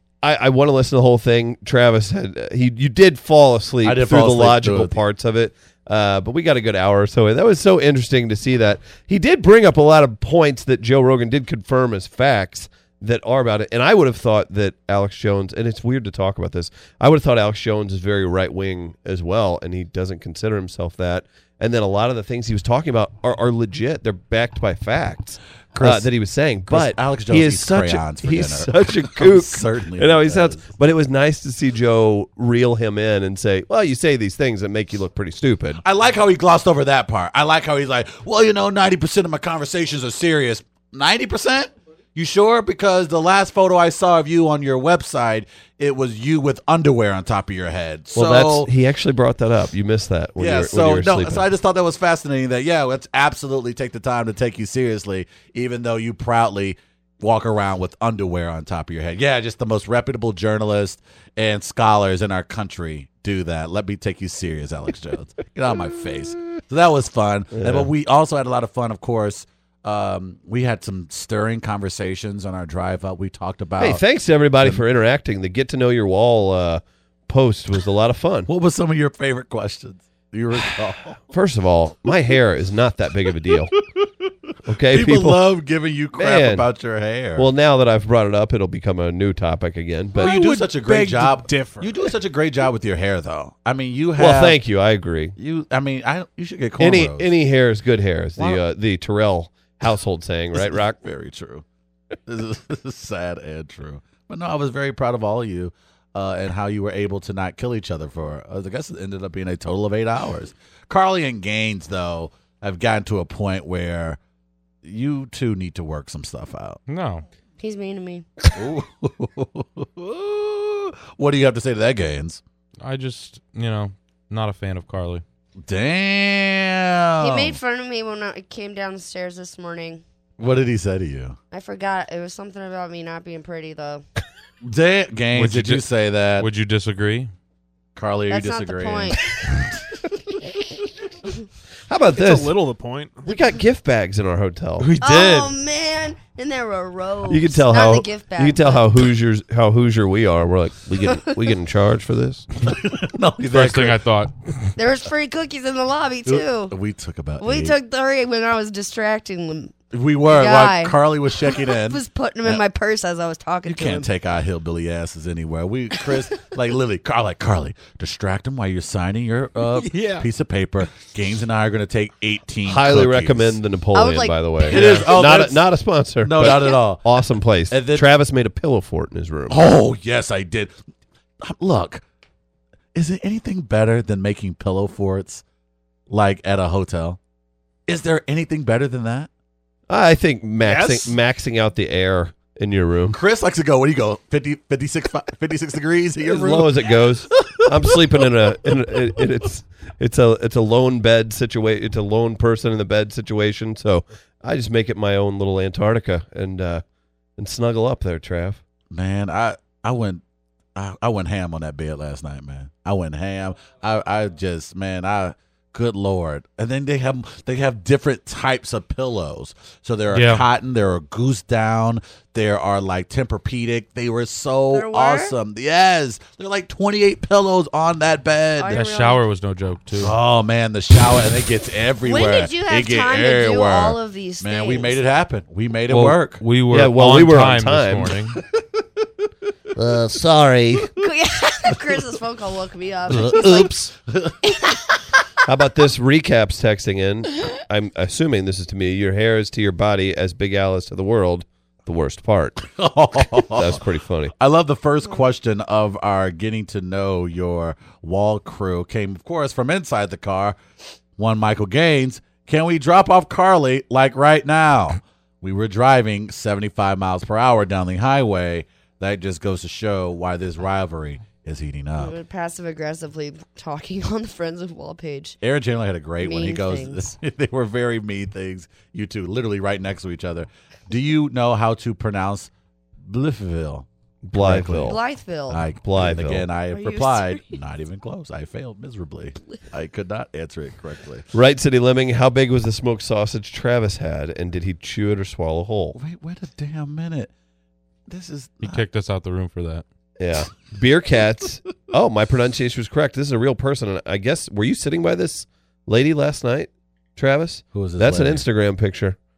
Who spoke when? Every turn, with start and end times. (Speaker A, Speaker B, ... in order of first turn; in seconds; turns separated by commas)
Speaker A: 0.2-35.8, Speaker B: 3.8-5.0, Speaker B: 25.7-26.1, Speaker B: 26.7-30.7, Speaker B: 35.8-48.7, Speaker A: 48.1-51.5, Speaker B: 50.4-74.0, Speaker A: 67.5-67.9, Speaker A: 73.8-78.5, Speaker B: 78.5-81.2, Speaker A: 81.3-83.7, Speaker A: 84.7-85.4, Speaker B: 84.9-87.5, Speaker A: 86.1-86.7, Speaker A: 87.3-90.3, Speaker C: 90.2-91.9, Speaker B: 90.2-94.6, Speaker A: 94.2-95.3, Speaker B: 95.3-97.3, Speaker A: 96.8-101.0, Speaker B: 100.6-101.6, Speaker B: 102.2-114.2, Speaker B: 114.8-116.8, Speaker D: 116.9-117.2, Speaker E: 117.6-118.2, Speaker B: 118.5-122.4, Speaker D: 122.8-125.2, Speaker B: 125.6-127.6, Speaker E: 127.2-130.0, Speaker B: 130.4-131.4, Speaker E: 131.5-134.0, Speaker B: 134.6-136.5, Speaker D: 135.3-135.8, Speaker D: 136.4-137.3, Speaker B: 137.9-139.6, Speaker E: 138.3-139.2, Speaker A: 141.9-142.5, Speaker C: 142.1-143.3, Speaker A: 143.2-144.9, Speaker D: 144.8-145.5, Speaker E: 145.0-148.9, Speaker A: 147.3-152.5, Speaker B: 152.6-154.0, Speaker D: 153.4-154.7, Speaker E: 154.8-156.7, Speaker B: 156.2-157.8, Speaker E: 157.4-159.7, Speaker B: 159.9-162.6, Speaker E: 160.3-161.0, Speaker E: 161.5-164.1, Speaker B: 163.7-173.6, Speaker C: 169.7-170.3, Speaker A: 172.6-179.7, Speaker E: 173.9-174.8, Speaker B: 174.7-175.6, Speaker B: 176.2-177.2, Speaker B: 177.7-178.1, Speaker B: 179.5-180.8, Speaker B: 181.4-182.0, Speaker B: 182.9-185.4, Speaker B: 186.1-187.2, Speaker B: 187.9-189.3, Speaker A: 189.9-193.2, Speaker C: 190.6-191.1, Speaker B: 193.1-196.9, Speaker A: 196.2-206.8, Speaker A: 207.4-208.6, Speaker B: 208.9-210.2, Speaker B: 210.7-228.8, Speaker D: 220.1-220.4, Speaker E: 224.7-225.3, Speaker E: 228.6-229.2, Speaker D: 228.7-230.2, Speaker B: 230.0-236.4, Speaker E: 232.0-235.0, Speaker D: 235.9-238.4, Speaker A: 236.7-238.2, Speaker A: 239.7-240.9, Speaker E: 240.9-243.7, Speaker B: 243.1-244.4, Speaker E: 244.4-244.9, Speaker A: 245.4-252.7, Speaker B: 252.6-253.8, Speaker A: 253.4-254.3, Speaker B: 254.4-260.6, Speaker B: 261.2-272.2, Speaker E: 272.0-275.4, Speaker B: 275.4-282.5, Speaker E: 276.2-277.0, Speaker B: 283.1-291.3, Speaker A: 284.2-285.0, Speaker E: 284.8-285.6, Speaker A: 285.8-286.5, Speaker E: 286.7-287.6, Speaker A: 291.3-296.0, Speaker B: 295.9-297.3, Speaker B: 298.1-298.8, Speaker D: 298.6-299.8, Speaker A: 300.2-309.2, Speaker B: 307.7-308.4